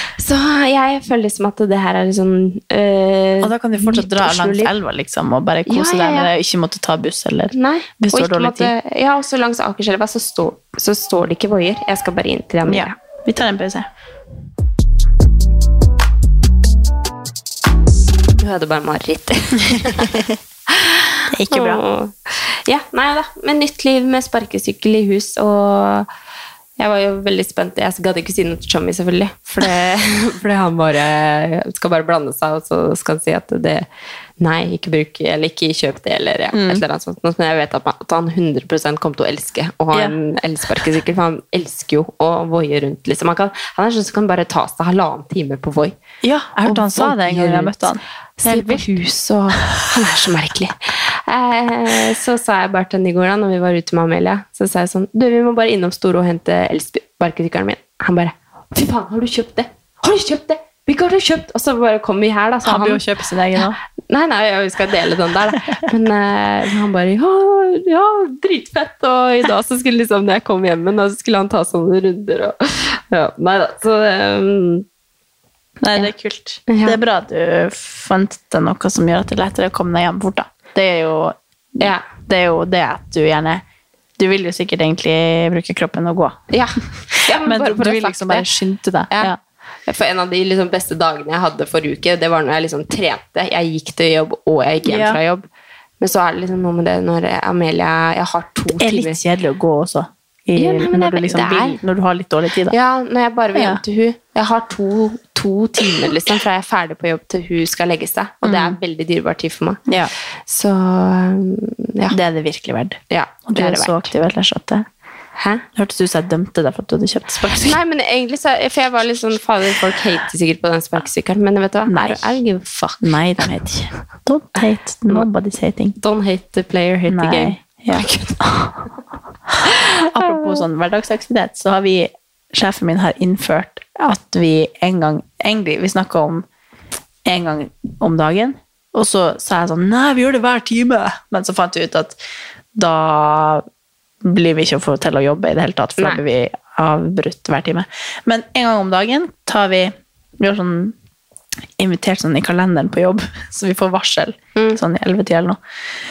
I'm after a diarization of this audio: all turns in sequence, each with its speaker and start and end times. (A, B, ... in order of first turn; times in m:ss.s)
0:00.2-0:04.7 A
0:03.4-0:08.7 B
0:05.6-0:06.3 A
0:07.5-0:13.0 A
0:12.7-0:13.9 B
0:18.4-0:26.1 A
0:19.9-0:20.2 B
0:21.3-0:21.8 B
0:26.8-0:33.8 A
0:34.4-0:46.0 A
0:36.5-0:36.8 B
0:46.2-0:49.0 B
0:46.6-0:47.8 A
0:48.4-1:03.0 A
1:02.6-1:03.8 B
1:03.6-1:14.9 A
1:15.8-1:23.6 B
1:16.7-1:17.0 A
1:24.2-1:26.4 B
1:26.5-1:28.5 A
1:27.1-1:29.4 B
1:29.9-1:35.4 A
1:34.8-1:35.2 B
1:36.0-1:39.2 A
1:38.8-1:42.7 B
1:40.6-1:41.8 A
1:42.7-1:49.8 A
1:43.6-1:43.8 B
1:48.4-1:48.8 B
1:49.9-1:50.1 B
1:50.4-1:52.2 A
1:52.1-1:54.9 B
1:53.1-1:54.1 A
1:55.4-1:55.6 A
1:55.7-1:57.8 B
1:57.6-2:03.1 A
2:01.9-2:02.3 B
2:03.0-2:06.0 B
2:06.0-2:08.4 A
2:07.1-2:08.9 B
2:09.5-2:16.4 B
2:09.7-2:10.4 A
2:17.2-2:22.2 B
2:22.7-2:23.6 B
2:24.2-2:31.0 B
2:31.8-2:35.6 B